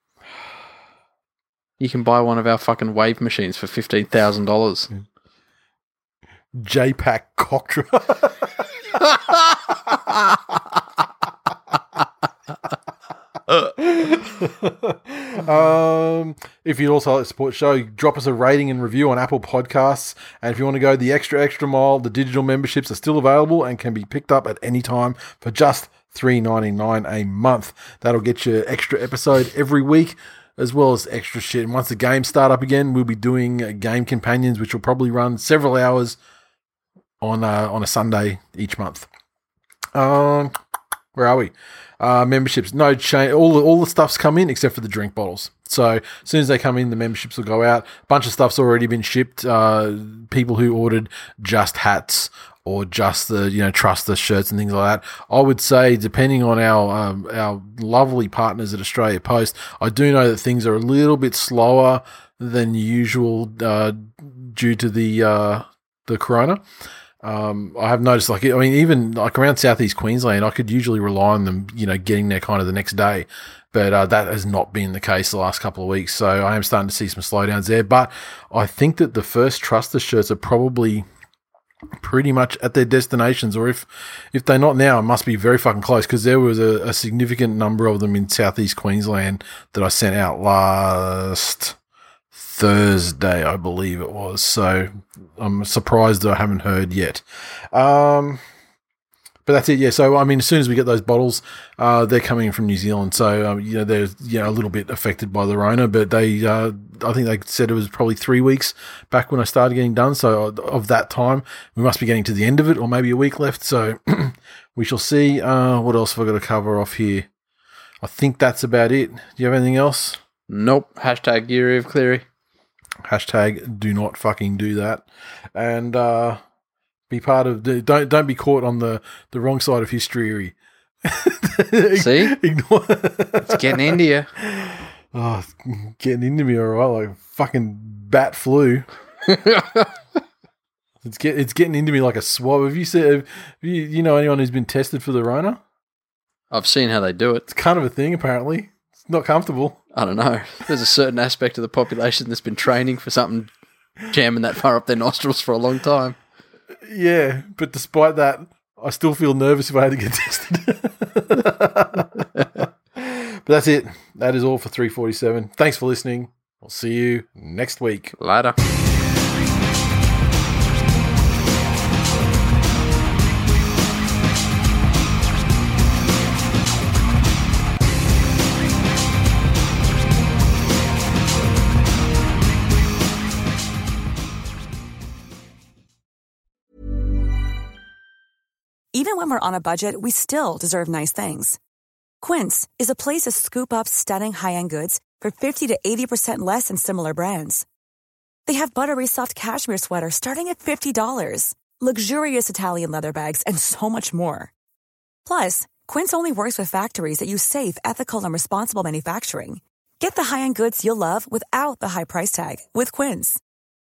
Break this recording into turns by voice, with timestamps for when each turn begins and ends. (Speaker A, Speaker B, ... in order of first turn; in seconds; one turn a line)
Speaker A: 1.8-4.9
Speaker B: 6.5-9.0
Speaker B: 13.7-36.2
Speaker B: 37.2-39.1
Speaker B: 39.9-40.5
Speaker B: 41.1-66.6
Speaker B: 67.2-81.0
Speaker B: 82.0-91.8
Speaker B: 92.3-98.4
Speaker B: 99.5-117.3
Speaker B: 118.0-120.2
Speaker A: 120.5-122.2
Speaker B: 123.0-126.4
Speaker B: 127.1-138.8
Speaker A: 131.9-132.4
Speaker A: 133.4-134.3
Speaker A: 139.3-139.9
Speaker B: 141.0-145.6
Speaker A: 146.5-147.4
Speaker B: 147.5-149.8
Speaker A: 149.9-153.5
Speaker A: 154.1-156.2
Speaker B: 156.8-168.1
Speaker A: 168.2-168.5
Speaker C: 188.9-191.6
Speaker C: 192.2-197.6
Speaker C: 198.4-204.5
Speaker C: 205.2-213.4